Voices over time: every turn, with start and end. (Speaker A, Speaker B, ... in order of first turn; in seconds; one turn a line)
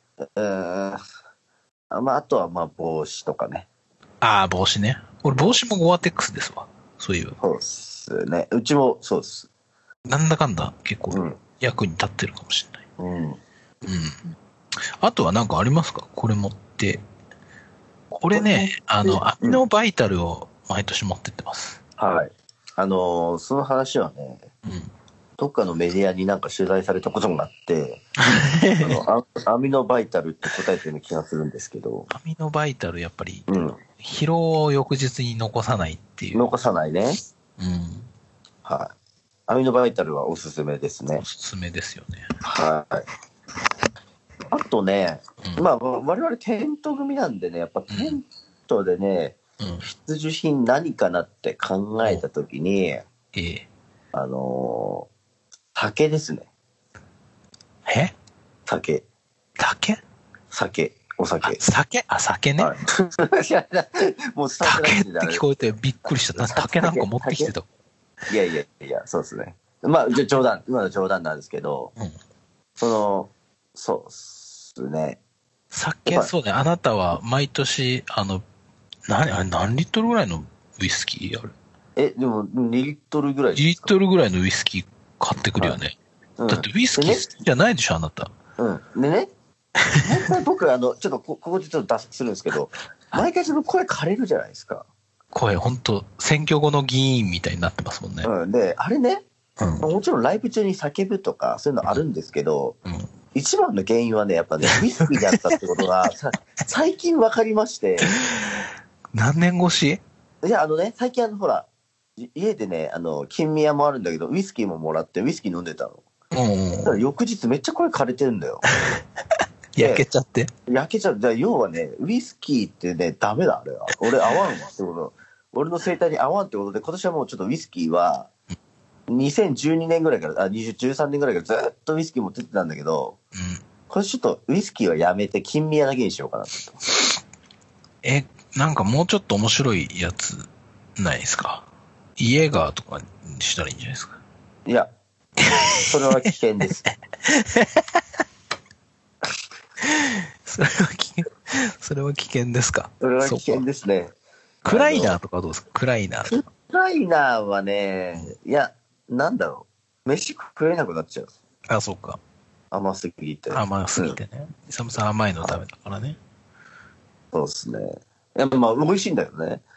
Speaker A: 0.4-1.0
Speaker A: 1.9-3.7
Speaker B: 4.2-7.4
Speaker A: 5.3-5.6
Speaker A: 7.4-9.5
Speaker B: 10.1-12.8
Speaker A: 11.1-11.4
Speaker A: 13.0-13.4
Speaker B: 13.8-14.3
Speaker B: 15.0-17.0
Speaker B: 18.2-21.8
Speaker A: 18.3-19.6
Speaker A: 22.0-24.5
Speaker B: 24.6-24.9
Speaker A: 25.4-28.1
Speaker B: 28.2-29.0
Speaker A: 28.8-32.1
Speaker B: 32.1-36.5
Speaker A: 33.5-33.8
Speaker A: 36.3-37.2
Speaker B: 37.6-38.1
Speaker A: 38.6-38.9
Speaker A: 39.5-41.2
Speaker B: 41.2-42.3
Speaker A: 42.4-43.1
Speaker A: 44.5-53.1
Speaker B: 47.9-48.2
Speaker B: 49.6-49.9
Speaker B: 53.3-53.7
Speaker A: 54.1-55.1
Speaker A: 55.8-56.5
Speaker B: 57.9-58.1
Speaker A: 58.7-59.0
Speaker B: 59.6-60.0
Speaker A: 60.5-61.6
Speaker B: 61.4-62.7
Speaker A: 62.6-65.5
Speaker B: 64.6-67.7
Speaker A: 66.3-67.5
Speaker A: 68.3-71.9
Speaker A: 72.8-75.2
Speaker B: 75.7-78.4
Speaker A: 76.1-76.3
Speaker B: 79.1-81.5
Speaker A: 82.0-83.9
Speaker B: 83.5-86.0
Speaker A: 86.4-87.3
Speaker B: 86.5-88.3
Speaker A: 88.6-89.3
Speaker A: 90.0-94.9
Speaker B: 95.3-98.3
Speaker A: 98.2-99.2
Speaker B: 99.6-99.9
Speaker A: 99.8-102.8
Speaker A: 103.3-108.1
Speaker B: 104.7-105.5
Speaker B: 108.1-110.0
Speaker A: 110.4-116.0
Speaker B: 116.3-117.0
Speaker A: 116.8-118.7
Speaker B: 118.8-119.0
Speaker B: 119.8-120.5
Speaker A: 119.8-120.0
Speaker A: 120.7-128.3
Speaker A: 129.1-133.2
Speaker B: 133.3-133.6
Speaker A: 133.9-136.8
Speaker B: 138.0-140.5
Speaker B: 141.0-141.7
Speaker B: 142.2-144.2
Speaker A: 144.7-144.9
Speaker B: 145.4-145.9
Speaker A: 145.9-146.8
Speaker B: 146.8-148.0
Speaker B: 149.8-153.7
Speaker A: 153.0-154.2
Speaker B: 154.7-156.4
Speaker A: 154.7-155.2
Speaker A: 156.3-161.3
Speaker B: 161.7-162.2
Speaker A: 162.7-164.2
Speaker B: 163.5-166.2
Speaker A: 167.3-169.6